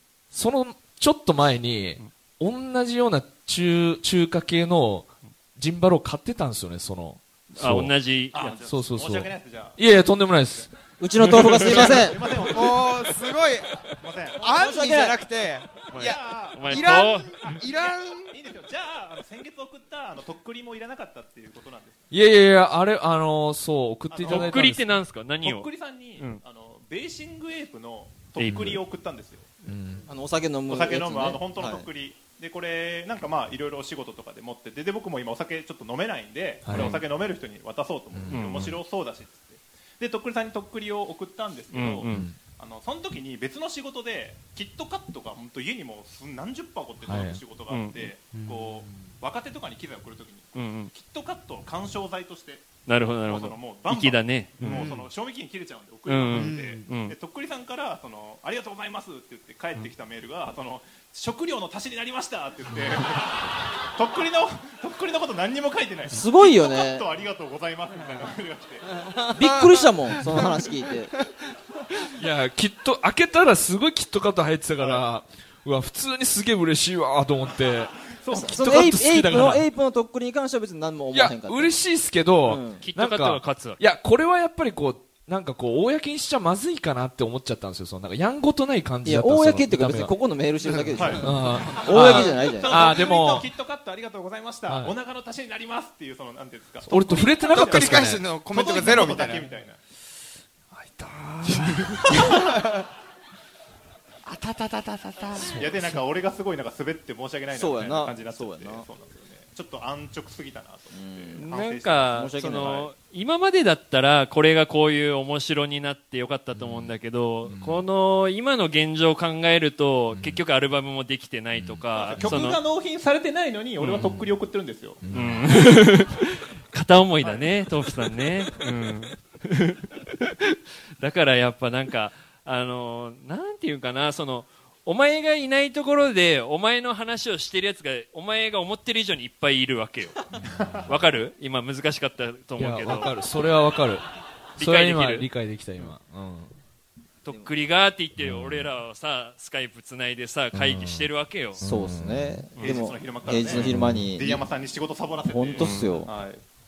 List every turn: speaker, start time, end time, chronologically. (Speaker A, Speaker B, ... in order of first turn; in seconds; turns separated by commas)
Speaker A: 0.3-7.9, Speaker B: 7.5-8.6, Speaker C: 8.3-9.8, Speaker A: 8.6-10.7, Speaker D: 11.0-12.2, Speaker B: 11.2-12.0, Speaker C: 11.5-13.1, Speaker E: 12.4-18.4, Speaker C: 13.9-14.5, Speaker D: 14.4-15.2, Speaker B: 15.9-17.5, Speaker C: 15.9-22.0, Speaker A: 22.1-24.9, Speaker C: 24.1-24.6, Speaker B: 24.2-25.7, Speaker C: 25.4-29.6, Speaker B: 28.4-28.8, Speaker A: 29.6-30.1, Speaker D: 30.1-31.9, Speaker C: 30.7-52.7, Speaker A: 36.6-37.0, Speaker B: 36.7-37.0, Speaker A: 38.1-38.8, Speaker B: 38.3-38.7, Speaker B: 41.7-42.2, Speaker A: 42.1-42.4, Speaker A: 47.0-47.4, Speaker B: 47.7-48.1, Speaker E: 48.3-49.1, Speaker B: 50.5-50.9, Speaker B: 52.9-54.9, Speaker C: 53.3-69.2, Speaker E: 54.6-55.1, Speaker B: 56.1-57.1, Speaker E: 56.3-56.9, Speaker D: 66.1-67.0, Speaker D: 69.3-71.1, Speaker E: 69.4-70.6, Speaker A: 72.0-77.9, Speaker C: 74.8-75.0, Speaker C: 78.2-78.6, Speaker D: 78.3-81.8, Speaker A: 78.5-79.6, Speaker A: 81.1-90.1, Speaker D: 82.4-82.8, Speaker B: 82.8-83.8, Speaker D: 89.0-93.0, Speaker E: 90.6-92.2, Speaker C: 91.0-99.8, Speaker A: 91.2-93.5, Speaker A: 94.7-94.9, Speaker A: 96.8-98.2, Speaker E: 97.4-99.5, Speaker A: 100.7-102.2, Speaker C: 102.1-102.4, Speaker E: 102.1-102.9, Speaker E: 104.2-105.7, Speaker A: 105.3-105.9, Speaker C: 105.4-112.2, Speaker D: 107.5-108.9, Speaker D: 110.9-112.9, Speaker B: 111.4-122.6, Speaker A: 116.5-116.9, Speaker A: 117.5-117.8, Speaker A: 120.1-120.4, Speaker A: 121.5-122.3, Speaker C: 121.9-125.0, Speaker A: 123.9-124.3, Speaker A: 125.0-125.5, Speaker B: 125.1-140.3, Speaker C: 127.2-127.5, Speaker A: 140.4-140.9, Speaker C: 140.4-140.9, Speaker B: 140.8-143.1, Speaker A: 142.6-144.0, Speaker B: 144.6-145.3, Speaker A: 144.6-146.6, Speaker B: 147.2-151.6, Speaker A: 148.2-148.7, Speaker A: 150.5-152.4, Speaker D: 151.6-154.4, Speaker C: 152.6-156.4, Speaker A: 153.6-154.1, Speaker D: 155.3-156.1, Speaker B: 155.6-155.9